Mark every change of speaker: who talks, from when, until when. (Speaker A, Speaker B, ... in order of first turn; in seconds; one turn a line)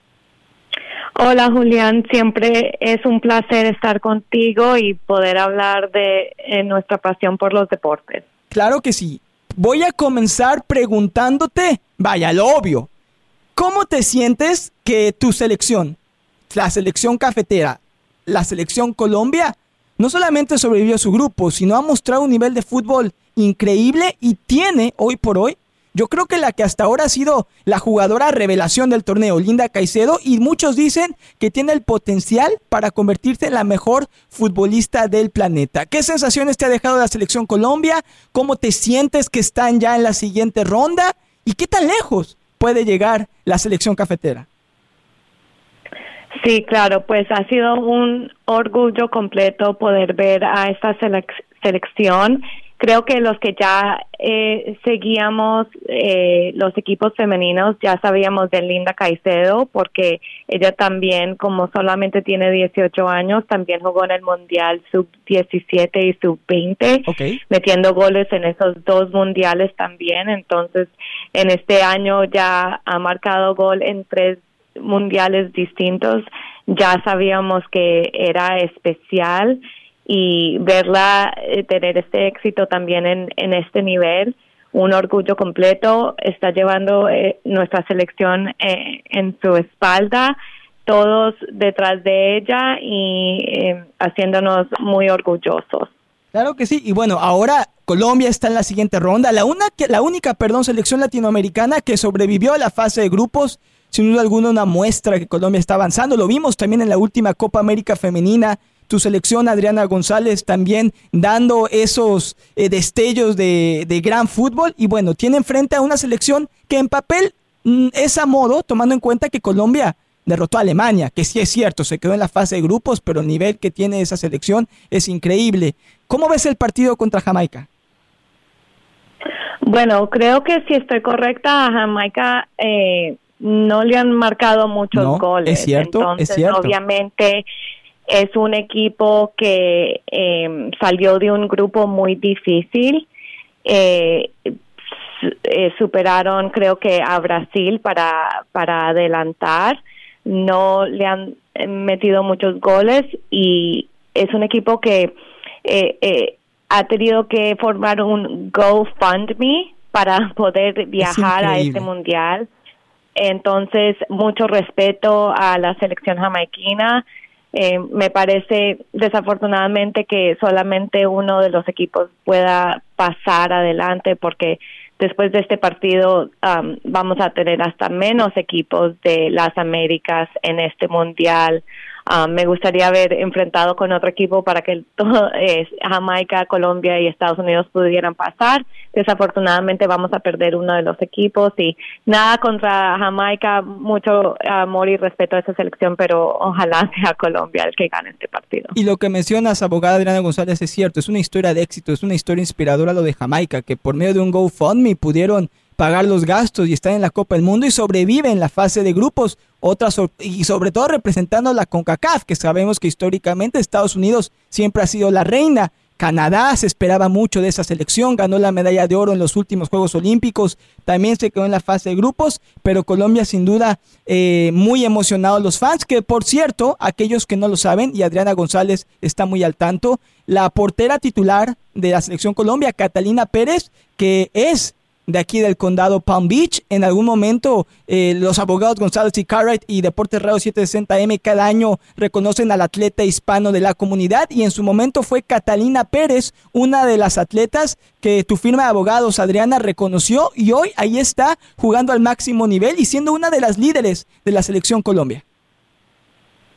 Speaker A: 1.2-8.2
Speaker B: 8.5-12.9
Speaker B: 13.6-16.0
Speaker B: 16.5-44.5
Speaker A: 46.4-90.3
Speaker B: 67.1-67.4
Speaker A: 90.8-95.9
Speaker B: 96.3-127.7
Speaker A: 129.6-137.4
Speaker B: 134.9-136.7
Speaker A: 138.1-143.1
Speaker A: 143.6-144.5
Speaker A: 145.2-162.5
Speaker B: 161.0-161.9
Speaker A: 163.2-198.7
Speaker B: 198.7-255.2